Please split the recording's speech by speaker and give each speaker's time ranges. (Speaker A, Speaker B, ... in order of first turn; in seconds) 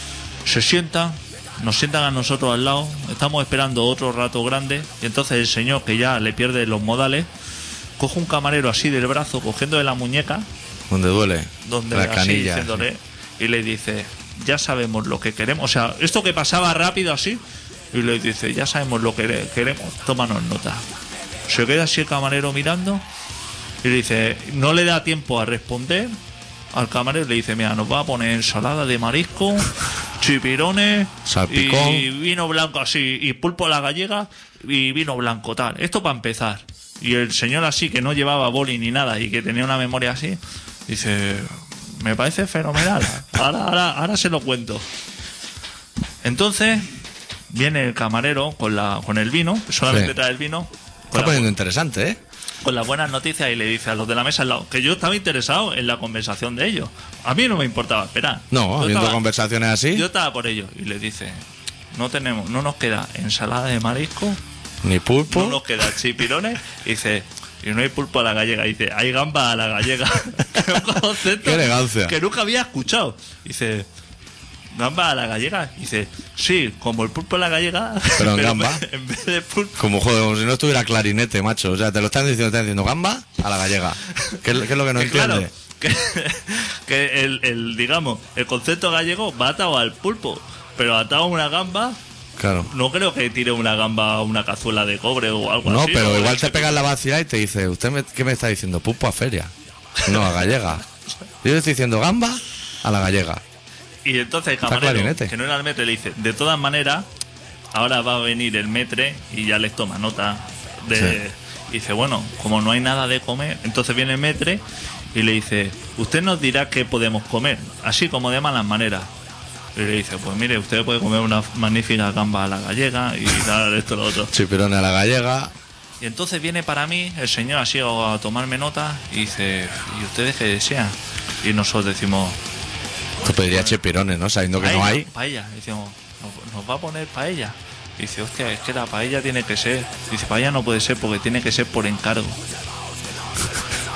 Speaker A: 0.5-7.3, 8.0-10.4, 11.6-20.8, 21.5-23.0, 23.8-26.1, 26.7-44.8, 46.2-46.9, 47.5-51.5, 52.6-59.2, 59.9-64.4, 65.3-73.9, 74.7-79.8, 84.9-92.0, 92.7-96.8, 104.0-107.1, 107.7-114.6, 115.1-119.1, 119.8-124.3, 126.0-132.4, 133.2-133.8, 134.6-142.4
Speaker B: 10.9-12.8, 31.2-32.0, 49.9-50.1, 51.1-52.2, 58.5-60.0, 64.8-65.6, 71.3-72.1, 78.2-78.8, 79.8-85.5, 92.4-92.7, 95.6-99.5, 100.0-100.8, 101.4-103.4, 104.7-105.3, 110.9-111.2, 124.3-125.5, 133.2-135.1